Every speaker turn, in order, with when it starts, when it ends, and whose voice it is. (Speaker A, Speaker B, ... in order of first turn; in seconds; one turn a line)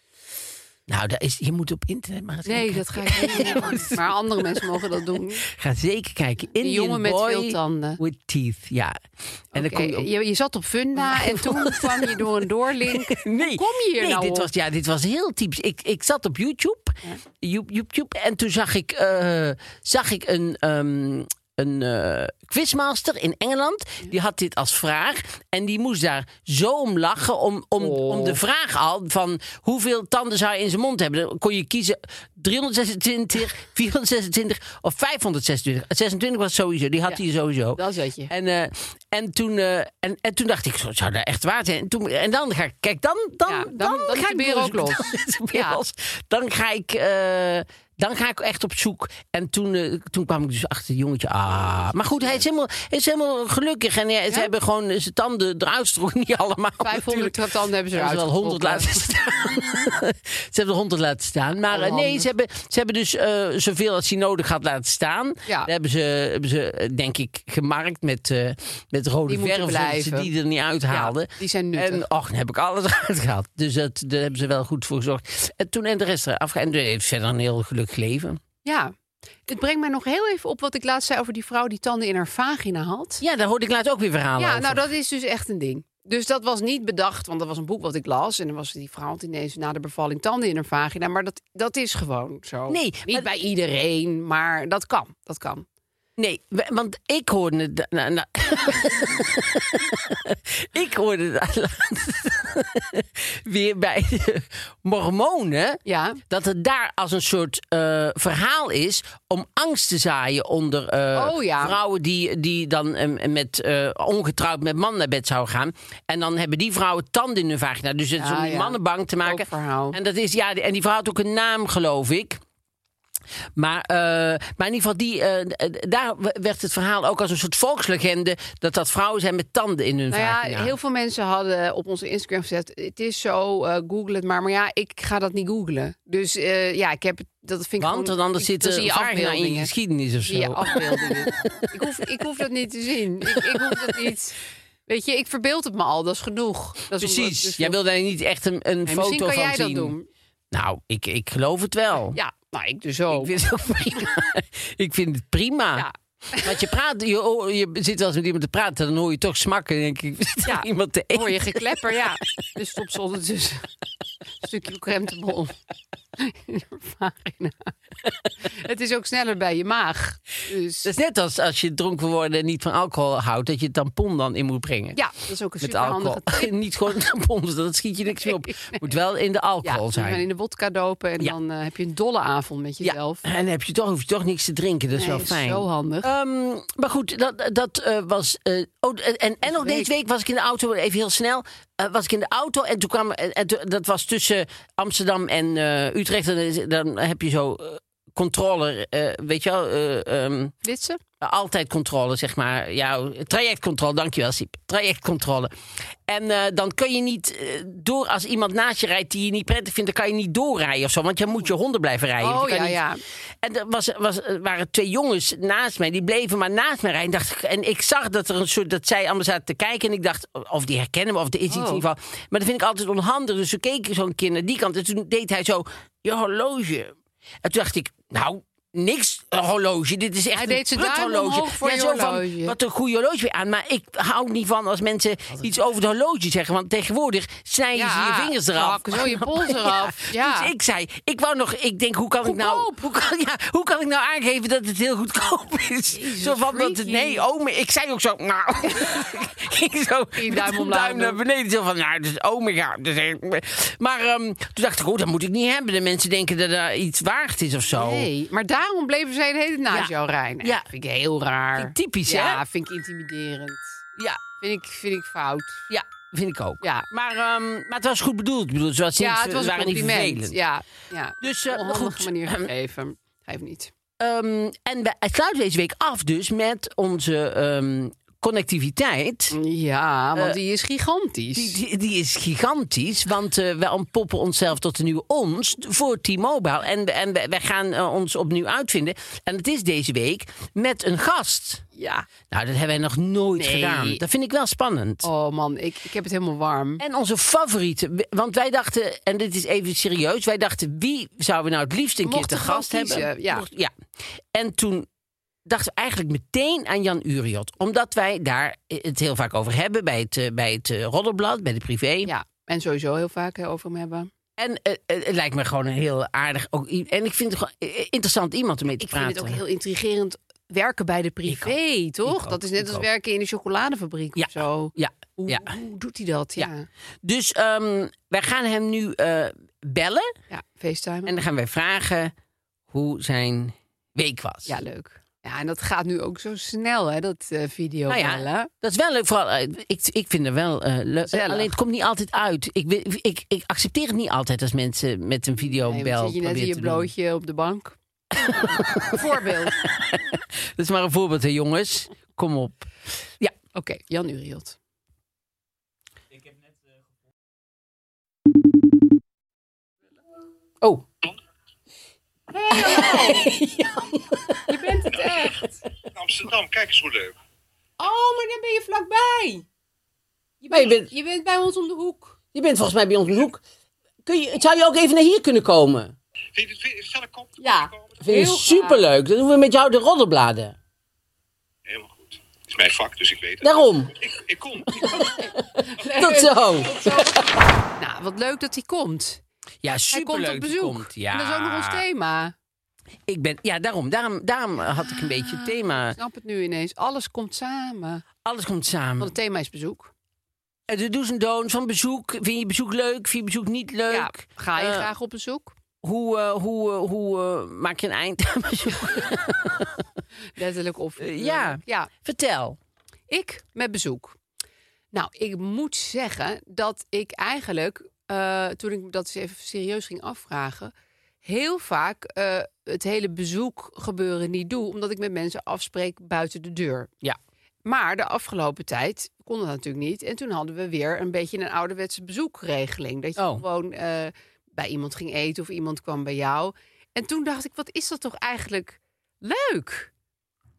Speaker A: 0.9-9.0
Speaker B: 2.5-5.4
Speaker B: 6.5-8.0
Speaker A: 9.5-10.1
Speaker B: 9.5-14.5
Speaker A: 11.0-78.4
Speaker B: 27.8-28.4
Speaker B: 37.8-38.3
Speaker B: 43.5-45.8
Speaker B: 51.8-52.4
Speaker B: 56.8-59.0
Speaker B: 61.7-62.3
Speaker B: 69.3-70.3
Speaker B: 70.9-72.0
Speaker B: 78.6-78.9
Speaker B: 79.5-83.2
Speaker A: 83.2-84.9
Speaker B: 84.4-95.7
Speaker A: 92.7-93.3
Speaker A: 96.2-122.4
Speaker B: 105.8-106.2
Speaker B: 111.1-111.8
Speaker B: 118.2-120.0
Speaker A: 123.5-130.7
Speaker B: 130.1-139.7
Speaker A: 137.8-141.7
Speaker B: 140.2-147.8
Speaker A: 143.4-144.1
Speaker A: 146.9-149.9
Speaker B: 148.9-150.1
Speaker A: 150.5-152.2
Speaker B: 152.1-153.3
Speaker A: 153.1-161.8
Speaker B: 155.8-156.7
Speaker B: 160.4-163.7
Speaker B: 164.4-165.5
Speaker B: 166.2-167.7
Speaker B: 168.4-170.9
Speaker A: 170.8-175.0
Speaker B: 174.9-176.5
Speaker A: 175.6-180.2
Speaker B: 178.2-178.8
Speaker B: 179.6-183.2
Speaker A: 182.8-200.5
Speaker B: 184.9-186.1
Speaker B: 189.4-189.9
Speaker B: 200.6-201.0
Speaker A: 201.2-205.5
Speaker A: 206.1-212.8
Speaker B: 212.2-213.0
Speaker A: 213.4-258.1
Speaker B: 221.5-221.8
Speaker B: 230.3-232.5
Speaker B: 237.8-240.5
Speaker B: 242.2-242.8
Speaker B: 245.9-247.2
Speaker B: 250.2-251.2
Speaker B: 257.7-263.8
Speaker A: 261.6-262.4
Speaker B: 264.4-265.6
Speaker A: 265.7-270.4
Speaker B: 269.0-273.7
Speaker A: 271.2-272.5
Speaker A: 274.0-279.4
Speaker B: 279.3-281.6
Speaker A: 281.3-291.6
Speaker B: 291.7-292.1
Speaker A: 292.3-295.1
Speaker B: 293.4-294.0
Speaker B: 295.0-296.8
Speaker A: 296.8-303.7
Speaker B: 302.0-303.4
Speaker A: 304.3-304.9
Speaker A: 305.4-312.1
Speaker B: 312.1-314.1
Speaker A: 314.4-319.4
Speaker B: 318.8-326.7
Speaker A: 321.3-322.9
Speaker A: 324.2-325.5
Speaker A: 327.0-330.1
Speaker B: 330.3-331.1
Speaker A: 331.1-332.1
Speaker A: 332.7-334.6
Speaker B: 334.5-338.5
Speaker A: 337.9-346.9
Speaker B: 341.1-341.5
Speaker B: 345.4-349.6
Speaker A: 348.2-352.7
Speaker B: 353.5-354.6
Speaker B: 362.3-363.3
Speaker A: 362.5-364.4
Speaker B: 364.5-365.5
Speaker C: 366.0-367.1
Speaker B: 367.8-369.4
Speaker B: 370.4-372.1
Speaker A: 370.5-370.9
Speaker A: 372.3-373.4
Speaker A: 374.0-375.9
Speaker C: 376.3-378.0
Speaker B: 377.4-378.8
Speaker A: 378.0-380.6
Speaker C: 381.7-385.1
Speaker A: 383.4-383.9
Speaker A: 384.8-387.2
Speaker B: 385.7-387.2
Speaker B: 387.8-389.2
Speaker A: 389.6-391.8
Speaker B: 389.9-392.3
Speaker A: 393.1-396.0
Speaker B: 394.6-398.0
Speaker A: 398.2-399.1
Speaker B: 399.0-399.9
Speaker A: 400.7-404.9
Speaker B: 403.9-405.5
Speaker A: 405.8-409.8
Speaker B: 410.3-411.9
Speaker A: 411.0-412.6
Speaker B: 413.1-414.2
Speaker B: 414.9-420.7
Speaker B: 421.2-426.9
Speaker B: 427.6-439.9
Speaker A: 433.2-433.4